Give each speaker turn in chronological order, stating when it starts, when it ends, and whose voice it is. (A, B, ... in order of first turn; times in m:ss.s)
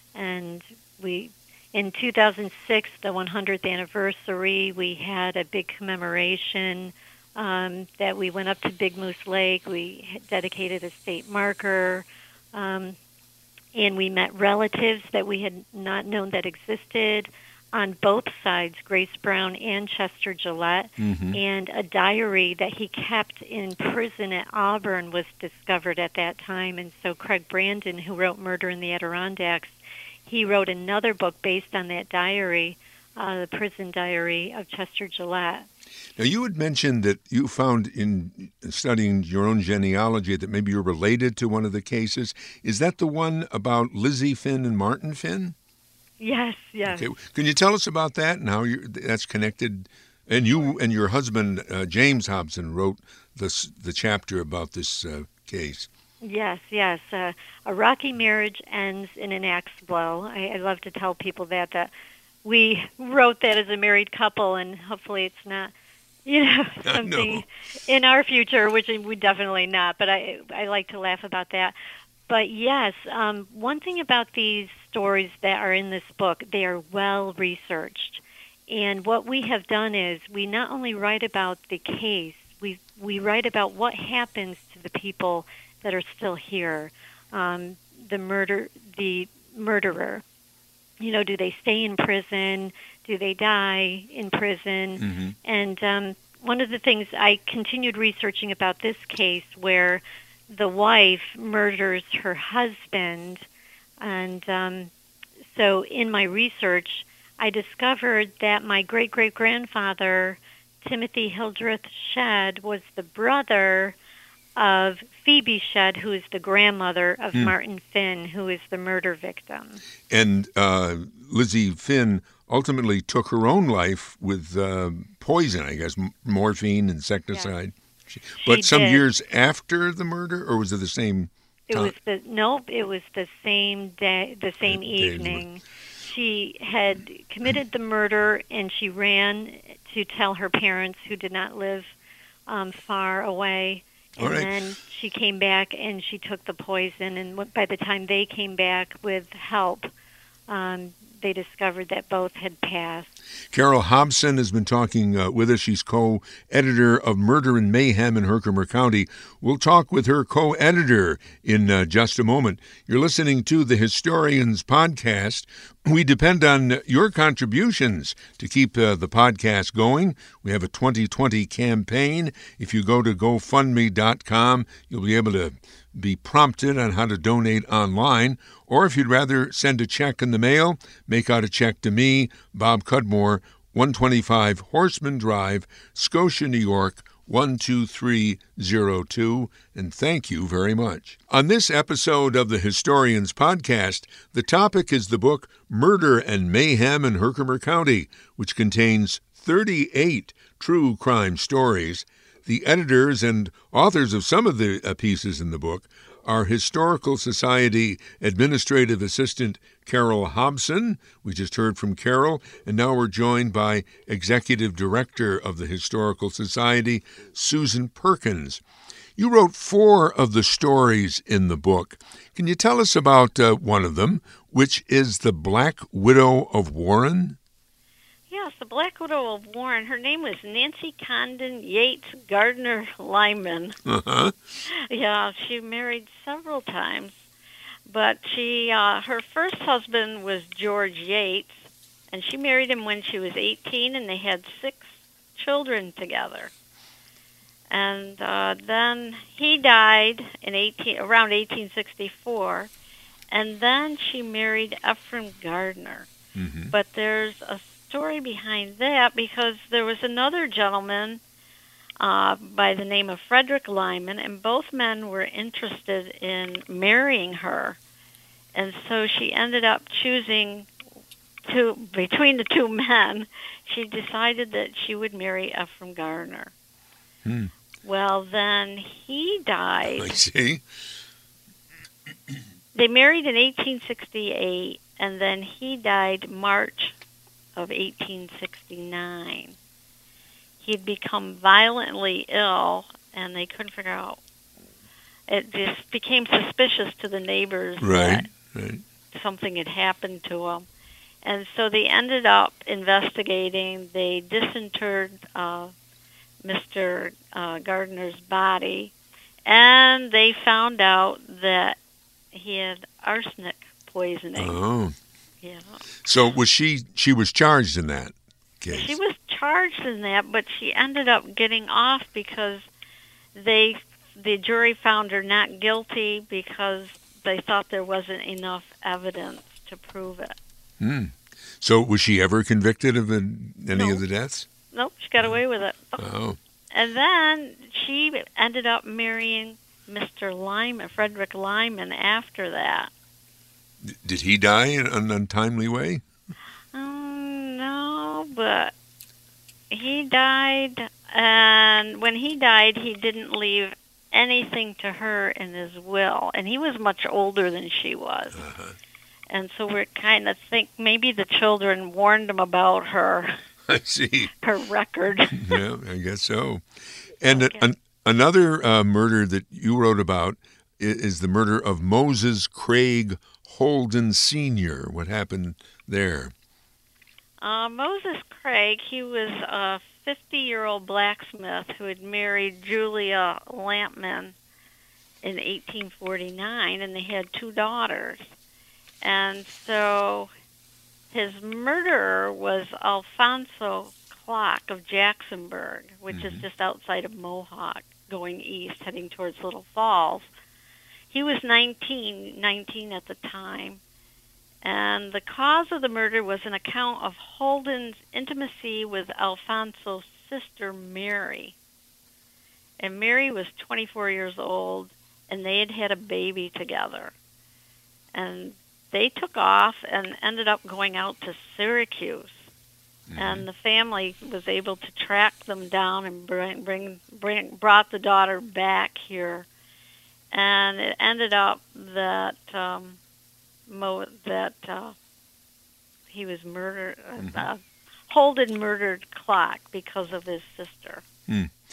0:00.2-0:13.0 A
0:13.7-0:35.7 A
0:21.0-0:21.4 B
0:36.2-0:45.6 B
0:46.2-0:47.1 A
0:46.9-0:55.9 B
0:56.2-1:01.9 A
1:02.4-1:05.7 A
1:06.3-1:11.8 A
1:06.8-1:07.4 B
1:12.3-1:30.2 A
1:31.0-1:43.5 A
1:35.0-1:35.4 B
1:44.0-1:44.9 A
1:45.5-1:54.0 A
1:54.6-1:59.8 A
2:00.1-2:11.9 B
2:08.4-2:09.0 A
2:11.7-2:21.9 A
2:14.6-2:15.4 B
2:22.5-2:29.9 A
2:24.2-2:24.5 B
2:30.5-2:33.1 A
2:33.5-3:38.6 B
3:39.2-3:47.4 B
3:48.3-3:53.8 C
3:53.9-3:54.4 B
3:54.7-3:57.2 C
3:57.9-4:06.5 C
4:07.7-4:12.7 C
4:13.3-4:16.1 C
4:16.4-4:16.7 B
4:16.7-4:21.2 C
4:22.0-4:27.8 C
4:28.5-4:30.7 C
4:31.5-4:36.5 C
4:37.2-4:37.5 B
4:37.8-4:40.2 C
4:39.9-4:40.6 B
4:42.7-4:46.9 C
4:47.6-4:49.6 C
4:50.6-4:54.2 C
4:55.3-4:58.3 C
4:57.8-4:58.8 B
4:59.1-5:00.7 C
5:01.2-5:05.7 C
5:06.4-5:08.9 C
5:09.5-5:11.8 C
5:12.3-5:14.6 C
5:14.4-5:15.0 B
5:15.4-5:15.8 C
5:16.0-5:19.0 B
5:18.7-5:22.7 C
5:23.4-5:30.4 C
5:30.8-5:34.5 B
5:33.8-5:34.0 C
5:34.7-5:36.0 C
5:36.0-5:36.4 B
5:36.7-5:42.9 C
5:43.8-5:46.0 B
5:46.7-5:48.7 C
5:49.7-5:58.4 C
5:58.3-5:58.8 B
5:59.3-6:03.4 C
6:03.7-6:04.3 B
6:04.3-6:05.6 C
6:05.3-6:06.6 B
6:07.2-6:16.3 B
6:07.3-6:07.6 C
6:17.4-6:24.4 C
6:25.2-6:28.2 C
6:29.0-6:30.3 C
6:31.1-6:40.3 C
6:36.1-6:36.5 B
6:41.1-6:43.8 C
6:44.6-6:51.5 C
6:52.8-6:57.1 C
6:58.1-7:02.5 C
7:03.1-7:03.5 B
7:03.2-7:09.5 C
7:10.3-7:13.0 C
7:13.7-7:15.0 C
7:16.1-7:21.0 C
7:17.2-7:17.5 B
7:21.3-7:21.6 B